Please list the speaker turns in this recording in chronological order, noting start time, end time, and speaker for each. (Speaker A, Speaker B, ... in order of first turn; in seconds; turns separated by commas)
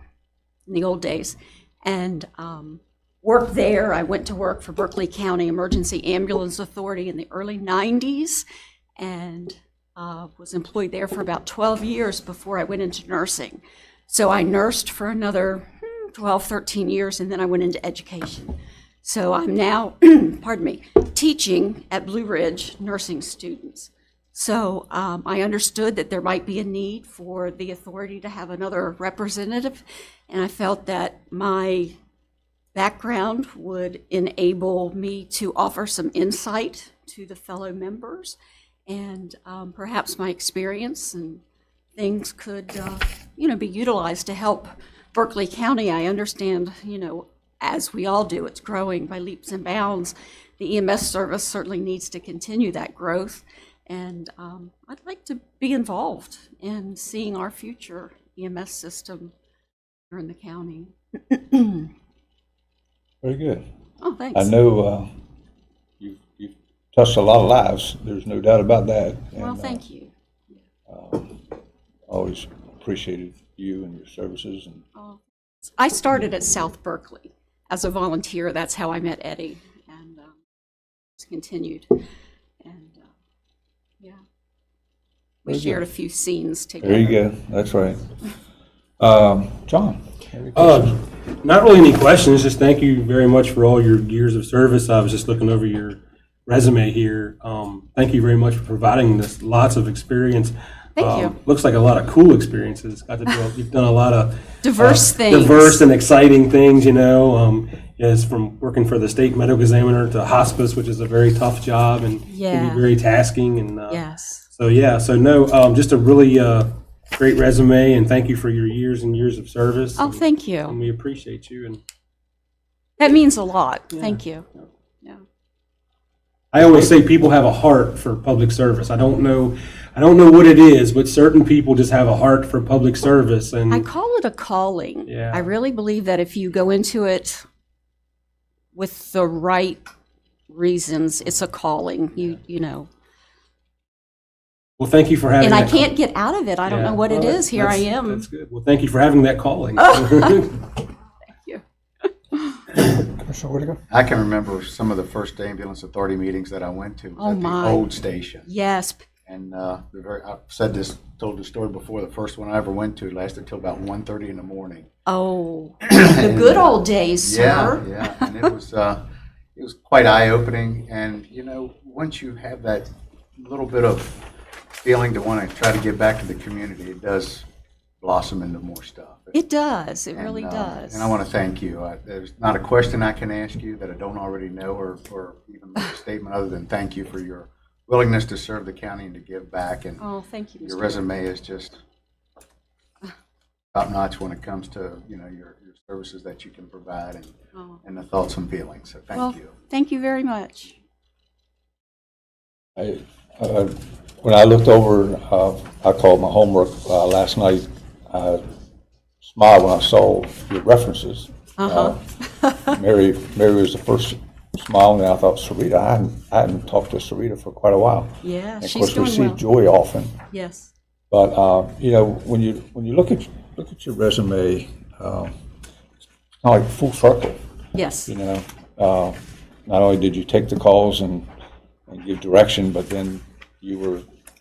Speaker A: 0.7-8.5, Speaker A: 9.0-31.9, Speaker A: 32.7-41.4, Speaker A: 42.0-59.3, Speaker A: 60.1-61.9, Speaker B: 63.2-63.6, Speaker A: 64.0-64.5, Speaker B: 64.3-65.2, Speaker B: 66.0-69.8, Speaker A: 69.4-70.1, Speaker B: 70.9-74.8, Speaker A: 75.0-80.4, Speaker A: 81.2-82.0, Speaker A: 82.6-83.1, Speaker A: 85.5-87.2, Speaker B: 85.5-85.8, Speaker B: 86.8-88.1, Speaker B: 89.0-91.0, Speaker C: 90.5-121.8, Speaker A: 101.0-101.3, Speaker A: 104.6-105.8, Speaker A: 112.3-112.9, Speaker A: 113.9-114.5, Speaker A: 120.0-120.8, Speaker A: 123.0-124.5, Speaker C: 126.5-133.9, Speaker B: 126.6-127.3, Speaker A: 133.7-137.4, Speaker C: 135.1-135.5, Speaker A: 138.7-139.8, Speaker A: 140.5-142.9, Speaker C: 144.8-145.9, Speaker A: 145.4-148.3, Speaker C: 146.7-150.6, Speaker A: 149.8-150.6, Speaker A: 151.3-151.6, Speaker A: 152.3-152.7, Speaker B: 152.8-153.8, Speaker D: 153.9-158.5, Speaker A: 157.2-157.9, Speaker A: 158.5-159.0, Speaker D: 159.3-164.9, Speaker A: 165.1-168.3, Speaker D: 165.8-174.2, Speaker D: 174.8-177.4, Speaker D: 178.0-179.4, Speaker A: 179.3-181.1, Speaker D: 180.2-190.0, Speaker A: 190.0-191.0, Speaker D: 190.6-191.8, Speaker D: 193.7-199.5, Speaker A: 197.6-197.8, Speaker A: 199.1-200.8, Speaker B: 202.8-208.4, Speaker B: 209.2-212.0, Speaker A: 211.6-212.8, Speaker B: 212.7-220.2, Speaker A: 218.2-219.4, Speaker A: 220.3-220.7, Speaker B: 221.1-225.3, Speaker B: 226.4-227.4, Speaker A: 227.7-228.1, Speaker B: 228.1-231.3, Speaker B: 231.9-234.1